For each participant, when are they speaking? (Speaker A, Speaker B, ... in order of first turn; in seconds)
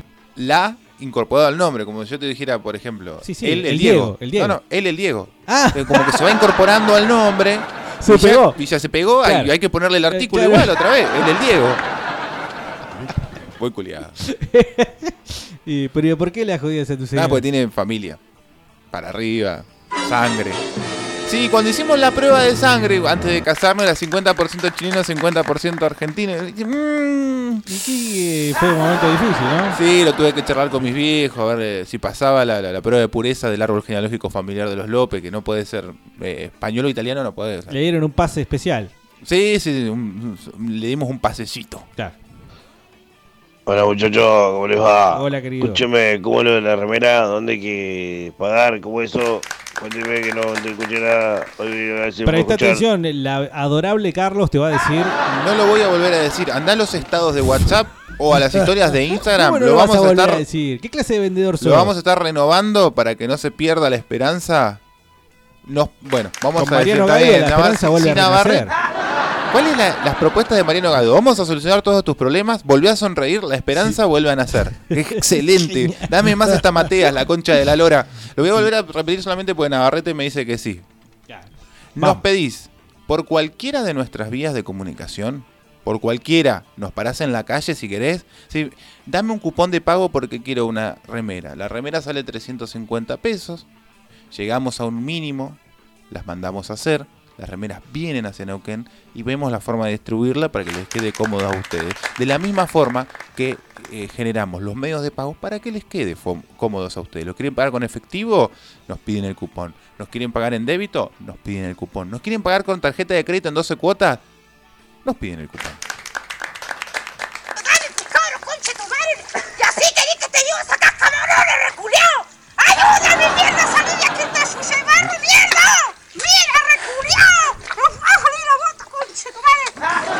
Speaker A: 0.3-11.8, 13.6-14.2, 17.1-18.2, 18.9-20.6, 21.2-27.6, 29.7-37.7, 39.2-41.9, 55.2-60.4, 61.6-64.8, 65.6-68.7, 69.5-80.8, 82.0-93.7, 94.3-95.6, 96.1-114.2, 115.0-115.8
Speaker B: 3.2-4.6, 5.5-6.2, 8.0-8.6, 9.2-9.5, 10.1-10.7, 14.2-17.4, 27.7-29.8, 37.7-38.9, 45.1-45.9, 52.2-55.1, 59.3-61.9, 66.6-68.7, 75.1-76.1, 81.3-82.2
Speaker C: 43.7-52.8
Speaker D: 117.5-129.9